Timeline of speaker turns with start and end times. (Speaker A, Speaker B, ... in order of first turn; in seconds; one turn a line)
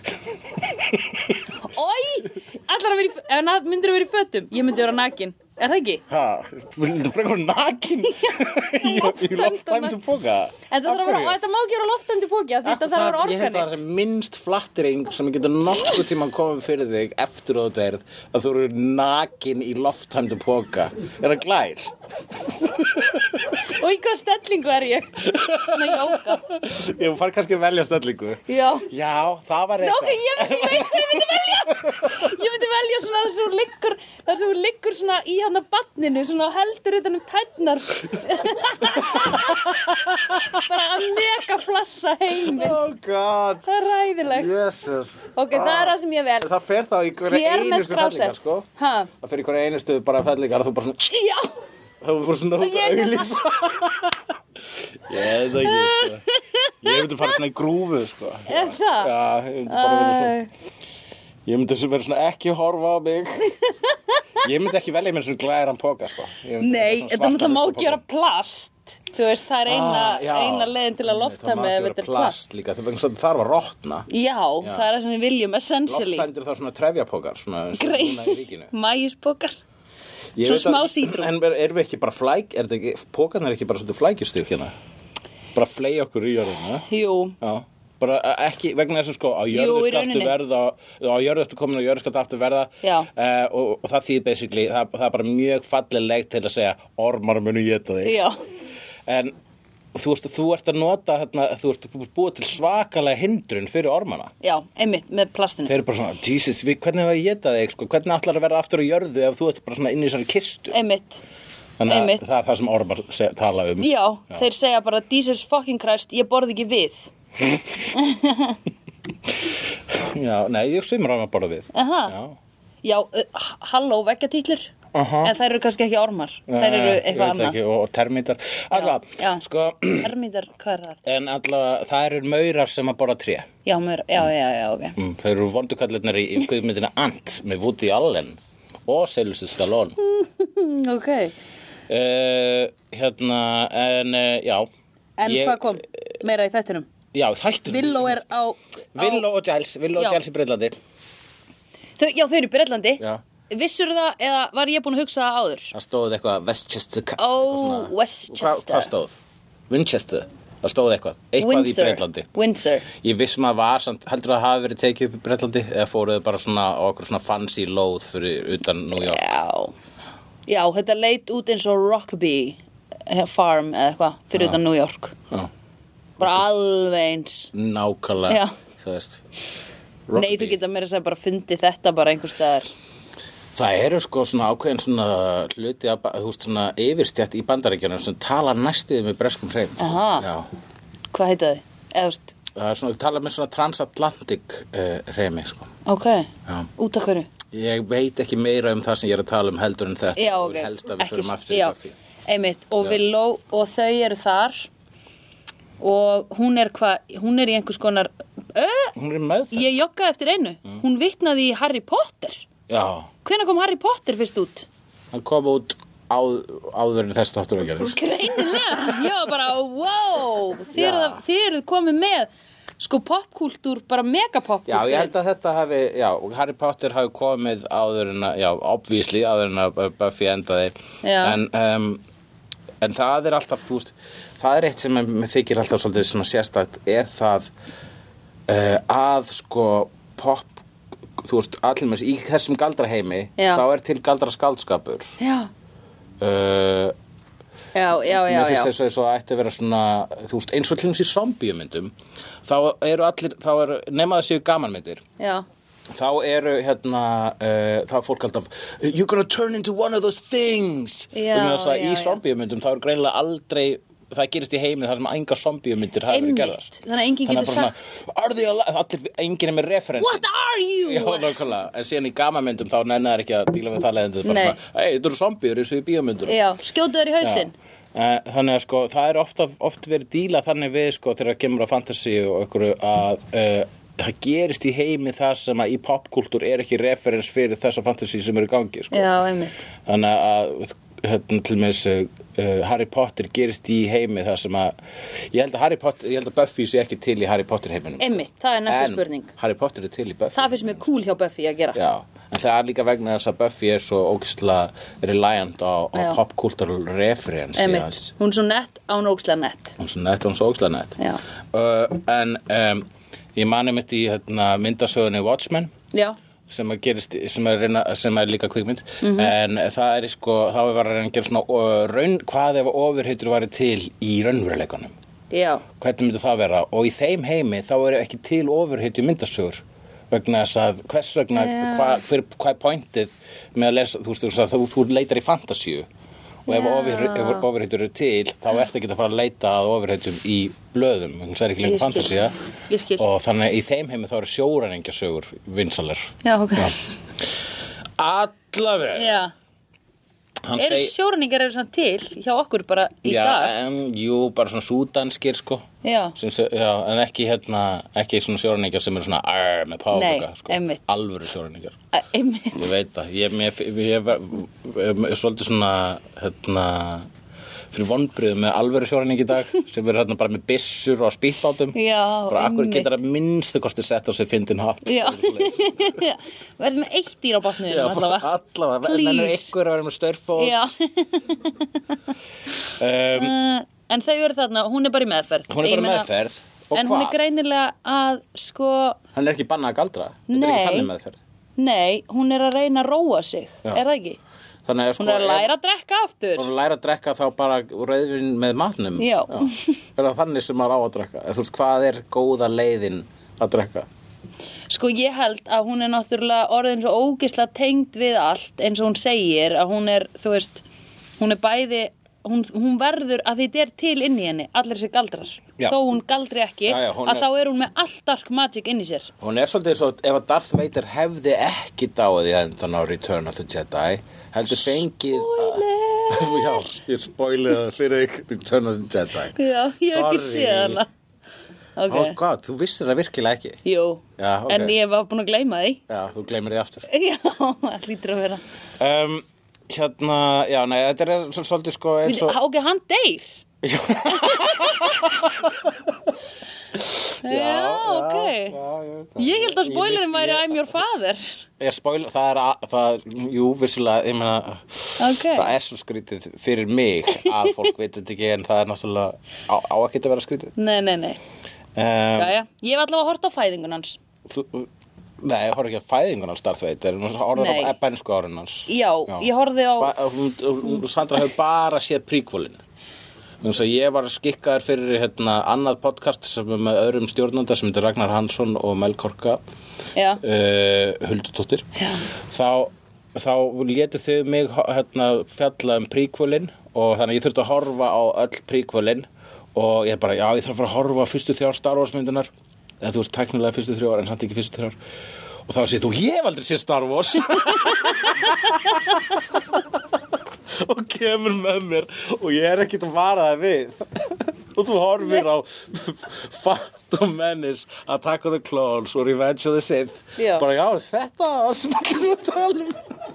Speaker A: 0.7-1.4
Speaker B: 1.6-6.0
Speaker A: 6.1-11.4
Speaker B: 8.2-10.0
Speaker B: 10.7-13.7
Speaker A: 12.6-23.6
Speaker B: 23.6-26.4
Speaker A: 25.2-32.2
Speaker B: 28.5-28.9
Speaker B: 29.8-39.8
Speaker A: 38.9-40.6
Speaker B: 40.4-42.8
Speaker A: 42.4-43.7
Speaker B: 43.6-44.5
Speaker A: 44.2-51.1
Speaker B: 45.4-46.5
Speaker B: 47.1-49.1
Speaker B: 51.1-51.5
Speaker A: 52.0-54.2
Speaker B: 52.6-53.4
Speaker A: 55.0-56.2
Speaker B: 55.1-57.3
Speaker A: 56.8-60.4
Speaker B: 58.5-59.1
Speaker B: 59.7-60.5
Speaker A: 61.5-63.5
Speaker A: 64.4-68.0
Speaker B: 66.6-72.3
Speaker A: 69.7-74.1
Speaker B: 74.1-76.2
Speaker A: 75.9-78.7
Speaker B: 77.8-79.5
Speaker A: 80.3-84.7
Speaker B: 80.4-81.3
Speaker A: 85.5-86.9
Speaker B: 86.9-87.3
Speaker A: 87.4-98.2
Speaker B: 89.5-90.3
Speaker B: 92.8-93.1
Speaker B: 98.0-98.3
Speaker A: 99.1-99.3
Speaker A: 99.9-104.3
Speaker B: 104.4-105.7
Speaker A: 105.6-110.8
Speaker B: 110.7-111.2
Speaker A: 111.8-114.4
Speaker B: 111.9-112.2
Speaker B: 113.8-117.1
Speaker A: 117.4-117.8
Speaker B: 117.9-118.6
Speaker A: 119.9-122.4
Speaker B: 121.7-122.1
Speaker B: 122.8-124.7
Speaker A: 124.9-125.3
Speaker B: 125.2-127.6
Speaker A: 126.5-130.1
Speaker B: 128.7-129.4
Speaker B: 130.0-131.0
Speaker A: 131.0-133.5
Speaker B: 133.6-134.9
Speaker A: 134.9-140.0
Speaker B: 140.0-141.3
Speaker A: 141.9-144.7
Speaker B: 145.2-146.9
Speaker A: 145.2-145.8
Speaker A: 147.1-148.2
Speaker B: 147.7-149.2
Speaker A: 148.9-150.8
Speaker B: 152.0-155.7
Speaker A: 155.7-159.2
Speaker B: 157.2-158.9
Speaker A: 159.7-162.3
Speaker B: 161.4-162.8
Speaker A: 162.9-169.3
Speaker B: 168.9-169.7
Speaker B: 170.5-175.1
Speaker B: 176.2-177.5
Speaker A: 177.5-179.2
Speaker B: 178.3-178.5
Speaker A: 180.1-180.6
Speaker B: 180.1-182.7
Speaker A: 183.5-190.5
Speaker B: 189.8-190.3
Speaker B: 191.1-192.3
Speaker A: 192.5-195.7
Speaker B: 195.8-197.3
Speaker A: 197.5-201.9
Speaker B: 200.2-201.7
Speaker B: 202.2-204.7
Speaker B: 205.8-208.9
Speaker A: 208.9-209.7
Speaker B: 209.5-212.4
Speaker A: 212.7-213.1
Speaker B: 213.2-214.7
Speaker A: 215.1-218.0
Speaker B: 217.9-225.1
Speaker A: 220.7-221.2
Speaker A: 224.7-232.0
Speaker B: 231.0-231.4
Speaker A: 232.8-237.5
Speaker A: 238.5-240.6
Speaker A: 241.2-245.1
Speaker B: 243.4-243.6
Speaker B: 245.2-245.5
Speaker A: 246.2-246.9
Speaker B: 247.7-248.7
Speaker A: 248.1-251.9
Speaker A: 252.4-255.0
Speaker B: 255.2-255.4
Speaker A: 255.9-266.7
Speaker B: 261.1-262.2
Speaker B: 266.1-267.8
Speaker A: 267.2-270.2
Speaker B: 270.0-271.4
Speaker A: 270.8-276.4
Speaker B: 274.2-274.6
Speaker B: 276.2-277.5
Speaker A: 277.2-289.1
Speaker B: 288.9-289.6
Speaker A: 289.9-294.7
Speaker A: 295.3-300.8
Speaker B: 298.0-299.3
Speaker B: 300.3-301.8
Speaker A: 301.7-308.1
Speaker B: 305.9-306.2
Speaker B: 307.6-309.8
Speaker A: 309.8-311.0
Speaker A: 311.5-315.7
Speaker A: 316.5-324.9
Speaker B: 319.0-319.3
Speaker B: 325.3-325.6
Speaker A: 325.8-335.9
Speaker B: 331.4-332.0
Speaker A: 336.4-342.3
Speaker B: 336.5-337.4
Speaker B: 341.6-343.0
Speaker A: 343.0-346.7
Speaker B: 346.2-346.7
Speaker A: 348.0-349.2
Speaker B: 348.9-349.3
Speaker A: 350.4-350.9
Speaker B: 350.6-353.5
Speaker A: 353.0-361.8
Speaker B: 355.8-356.1
Speaker B: 359.9-360.9
Speaker B: 361.9-362.7
Speaker A: 362.5-367.1
Speaker A: 367.7-371.8
Speaker B: 371.7-372.9
Speaker A: 372.3-376.0
Speaker B: 374.8-378.3
Speaker A: 377.6-380.7
Speaker B: 378.8-379.5
Speaker B: 380.4-381.9
Speaker A: 382.7-383.4
Speaker B: 383.1-386.1
Speaker A: 385.5-387.2
Speaker B: 386.7-389.0
Speaker A: 389.1-391.2
Speaker B: 390.3-390.9
Speaker B: 391.6-394.2
Speaker A: 394.6-395.5
Speaker B: 395.0-396.5
Speaker A: 396.4-403.9
Speaker B: 399.0-399.7
Speaker B: 404.7-410.6
Speaker B: 411.2-419.1
Speaker A: 416.7-417.2
Speaker A: 419.2-430.8
Speaker B: 425.1-426.7
Speaker B: 429.3-430.9
Speaker B: 431.8-432.1
Speaker A: 431.9-433.6
Speaker B: 433.6-435.8
Speaker A: 434.2-434.7
Speaker A: 435.9-436.9
Speaker B: 436.9-438.4
Speaker A: 438.8-442.4
Speaker B: 442.0-443.4
Speaker A: 443.6-445.7
Speaker B: 444.1-445.1
Speaker A: 447.1-450.6
Speaker B: 447.2-448.6
Speaker B: 449.2-451.4
Speaker A: 451.6-460.5
Speaker B: 455.0-455.5
Speaker B: 460.6-461.2
Speaker A: 461.8-462.3
Speaker B: 462.1-464.0
Speaker A: 464.3-464.7
Speaker A: 465.2-472.6
Speaker B: 467.4-467.7
Speaker B: 468.7-469.9
Speaker A: 473.4-479.4
Speaker B: 479.9-480.2
Speaker A: 480.2-481.7
Speaker B: 481.8-482.0
Speaker A: 482.3-492.3
Speaker A: 492.8-494.8
Speaker A: 495.5-499.2
Speaker A: 500.6-512.8
Speaker B: 510.2-510.4